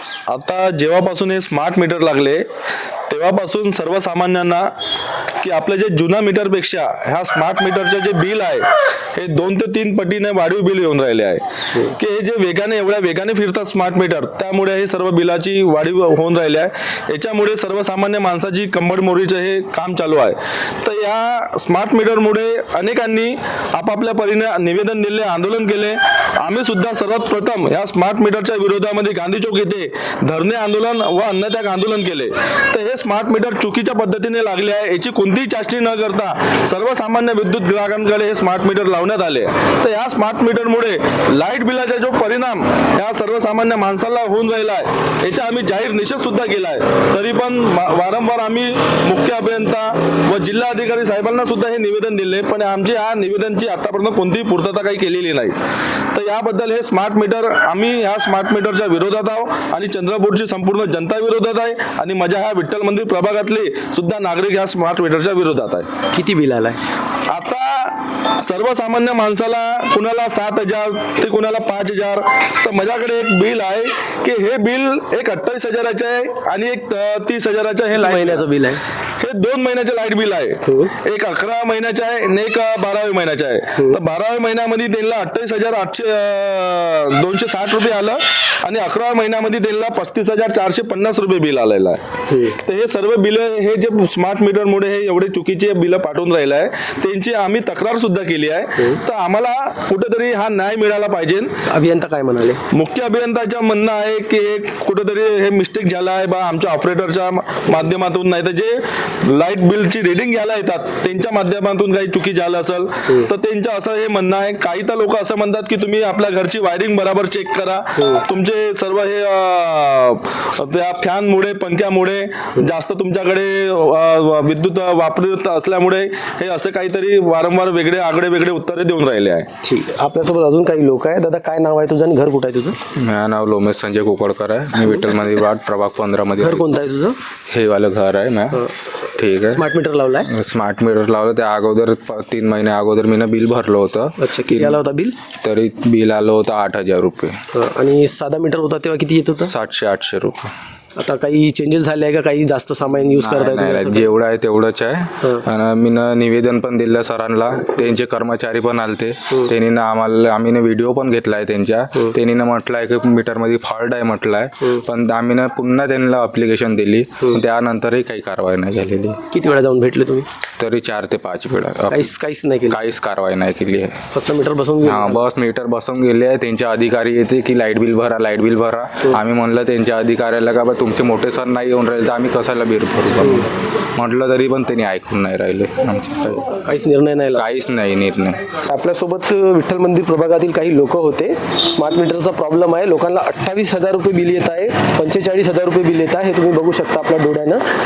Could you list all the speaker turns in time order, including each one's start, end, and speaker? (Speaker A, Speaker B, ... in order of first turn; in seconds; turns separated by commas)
Speaker A: 0.3-2.5, Speaker A: 3.1-4.7, Speaker A: 5.4-55.6, Speaker A: 56.1-65.9, Speaker B: 66.1-66.8, Speaker A: 67.3-78.5, Speaker B: 77.9-78.8, Speaker A: 79.2-92.0, Speaker B: 80.7-80.9, Speaker B: 92.3-92.6, Speaker A: 92.5-101.6, Speaker B: 101.7-102.6, Speaker A: 102.7-129.5, Speaker B: 118.0-118.2, Speaker B: 129.6-132.8, Speaker C: 132.9-136.7, Speaker B: 136.4-137.2, Speaker C: 137.5-139.6, Speaker B: 139.5-140.3, Speaker C: 140.3-144.8, Speaker B: 144.2-145.2, Speaker C: 145.4-147.4, Speaker B: 147.5-149.5, Speaker C: 149.4-150.5, Speaker B: 150.9-154.1, Speaker C: 153.0-169.2, Speaker B: 169.3-170.3, Speaker C: 170.6-172.1, Speaker B: 171.9-172.8, Speaker C: 172.7-174.0, Speaker B: 174.1-175.2, Speaker C: 174.8-186.6, Speaker B: 183.2-183.5, Speaker B: 186.6-187.4, Speaker C: 187.3-188.4, Speaker B: 188.5-197.6